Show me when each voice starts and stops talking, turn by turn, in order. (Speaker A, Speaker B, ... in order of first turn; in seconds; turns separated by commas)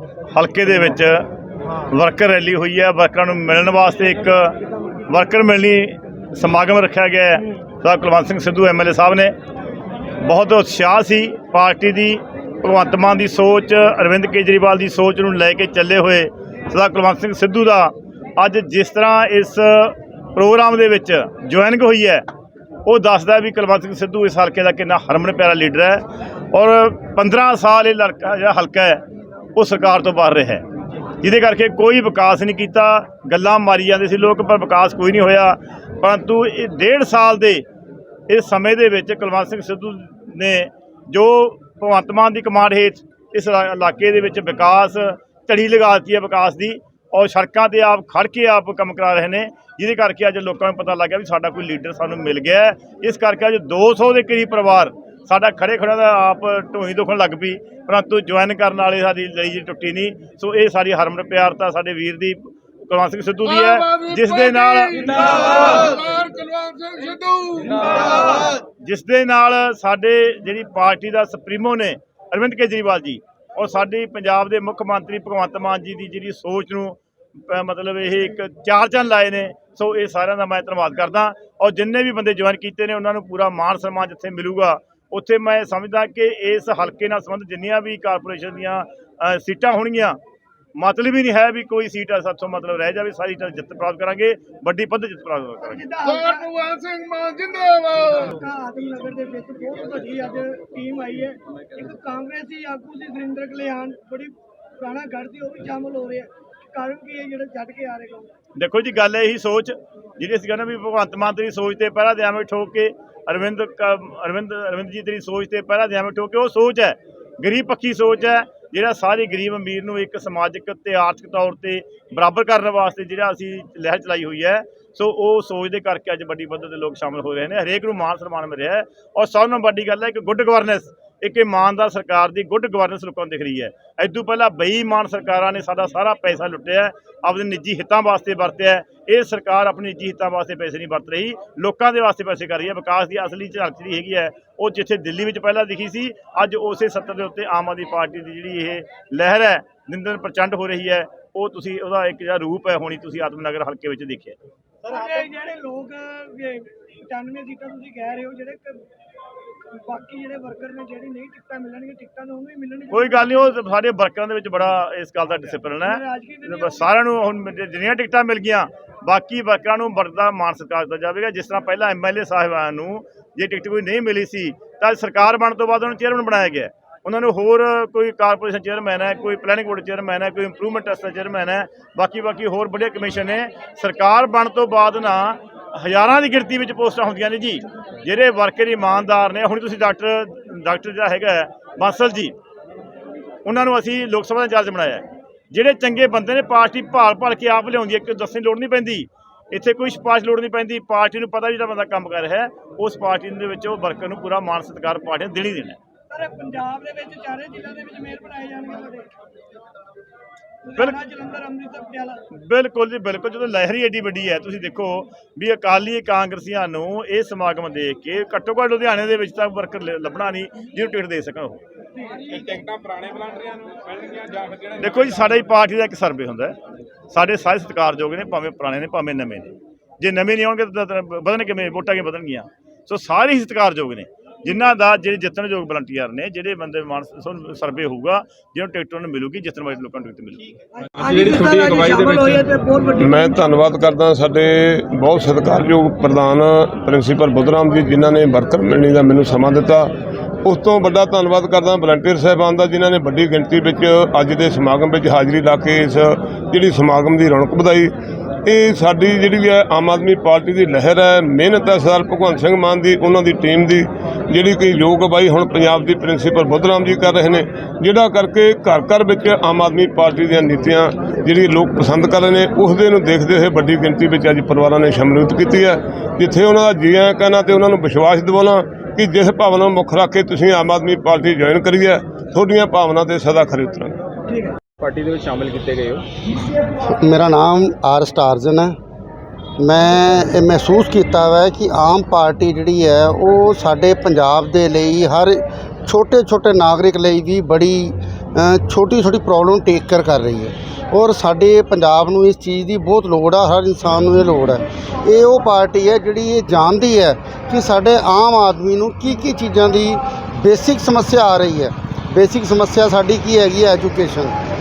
Speaker A: 0.3-1.3, Speaker A: 1.9-9.3, Speaker A: 10.2-22.3, Speaker A: 22.9-30.6, Speaker A: 31.2-37.6, Speaker A: 38.3-65.9, Speaker B: 65.9-67.7, Speaker A: 68.2-77.0, Speaker A: 77.5-90.2, Speaker A: 90.8-95.8, Speaker C: 95.7-97.0, Speaker C: 98.1-108.3, Speaker A: 108.6-154.4, Speaker C: 154.8-158.8, Speaker C: 159.7-163.3, Speaker A: 162.9-192.3, Speaker C: 165.8-166.9, Speaker A: 193.4-205.8, Speaker C: 206.1-209.1, Speaker C: 210.7-212.2, Speaker A: 212.3-221.6, Speaker C: 222.0-222.2, Speaker D: 222.3-225.1, Speaker A: 224.8-226.6, Speaker A: 227.1-240.4, Speaker C: 240.7-243.5, Speaker D: 241.0-242.4, Speaker E: 243.0-249.9, Speaker E: 250.4-257.9, Speaker E: 258.4-283.9, Speaker B: 284.8-286.0, Speaker F: 286.8-288.8, Speaker F: 289.6-314.4